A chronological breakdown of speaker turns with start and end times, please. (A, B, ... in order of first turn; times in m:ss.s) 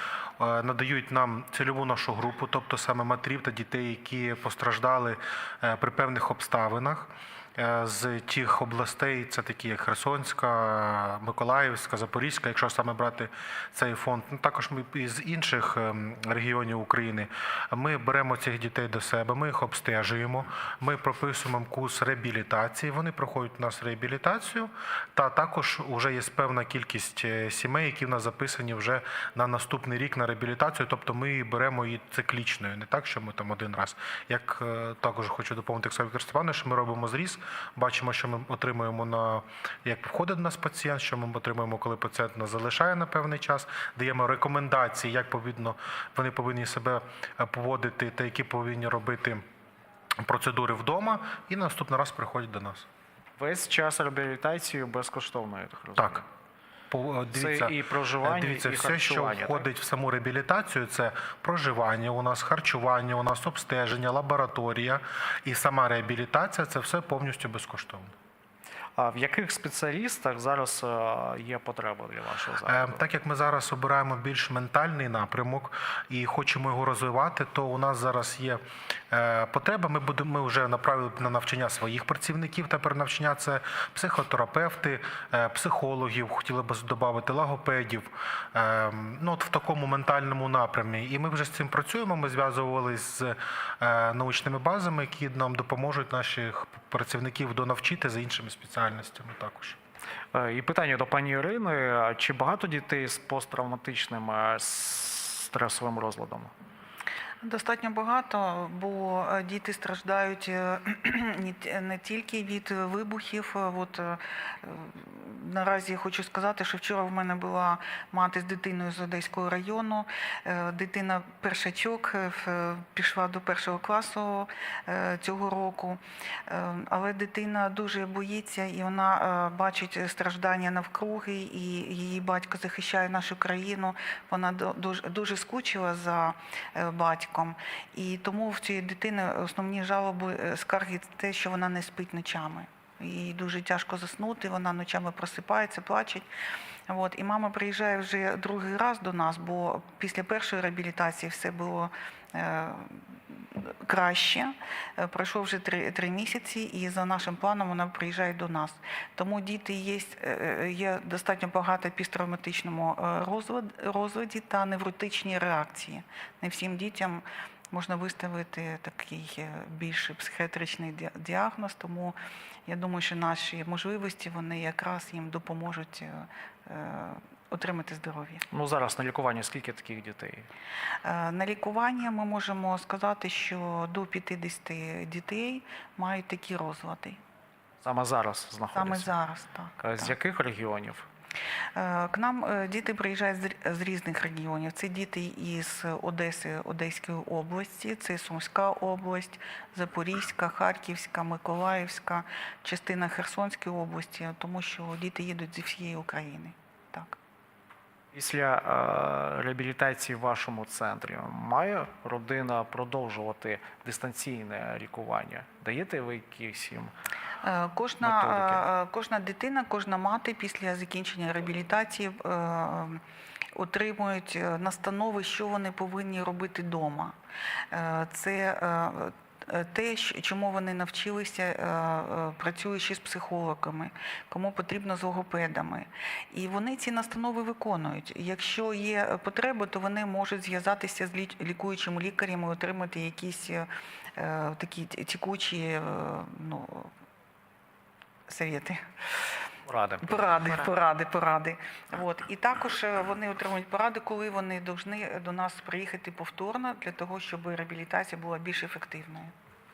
0:00.4-0:49.4 A
0:50.2-0:52.9 A
0:53.4-0:56.2 B
0:56.0-0:56.2 A
0:56.9-1:08.1 A
0:57.3-0:59.6 B
1:09.0-1:13.0 B
1:12.7-1:39.8 A
1:40.3-1:46.5 B
1:47.4-2:26.3 C
2:26.9-2:58.4 C
2:58.5-3:00.5 B
3:01.0-3:07.2 C
3:07.8-3:09.1 B
3:08.7-3:10.1 C
3:09.8-3:11.1 B
3:11.8-3:27.2 C
3:28.1-3:36.9 B
3:37.4-3:43.0 C
3:38.0-3:38.6 B
3:43.6-3:47.2 C
3:47.7-4:06.9 C
4:08.3-4:08.8 C
4:09.7-4:10.5 B
4:10.0-4:19.3 C